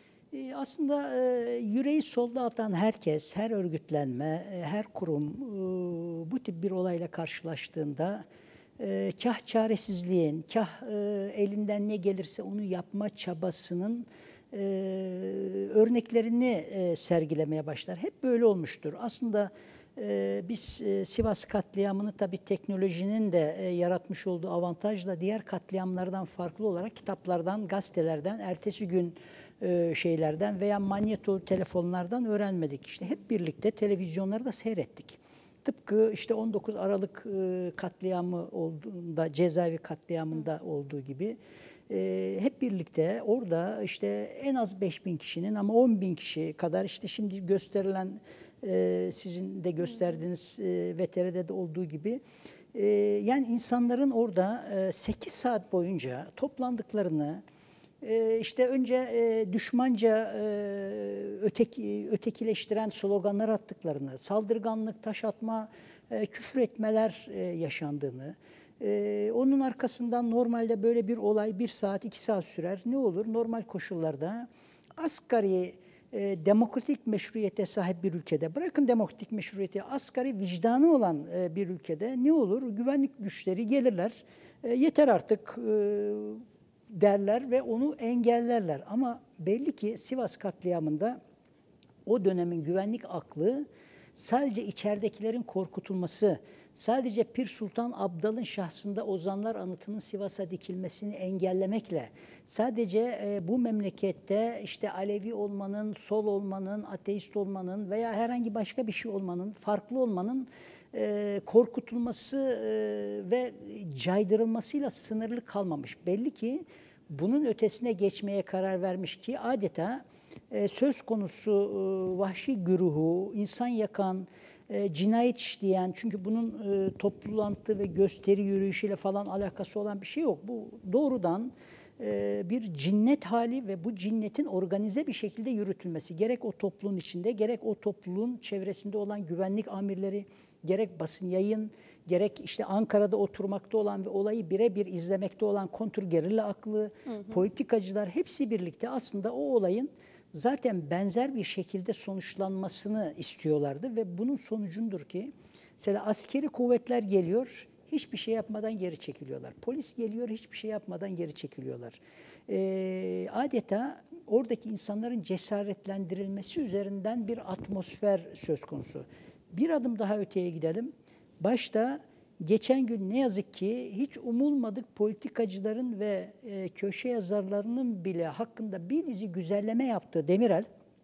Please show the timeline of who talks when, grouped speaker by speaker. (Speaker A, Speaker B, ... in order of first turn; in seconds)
Speaker A: 0.3-8.2, 8.8-41.4, 41.9-52.2, 52.7-57.4, 58.0-91.2, 92.1-180.7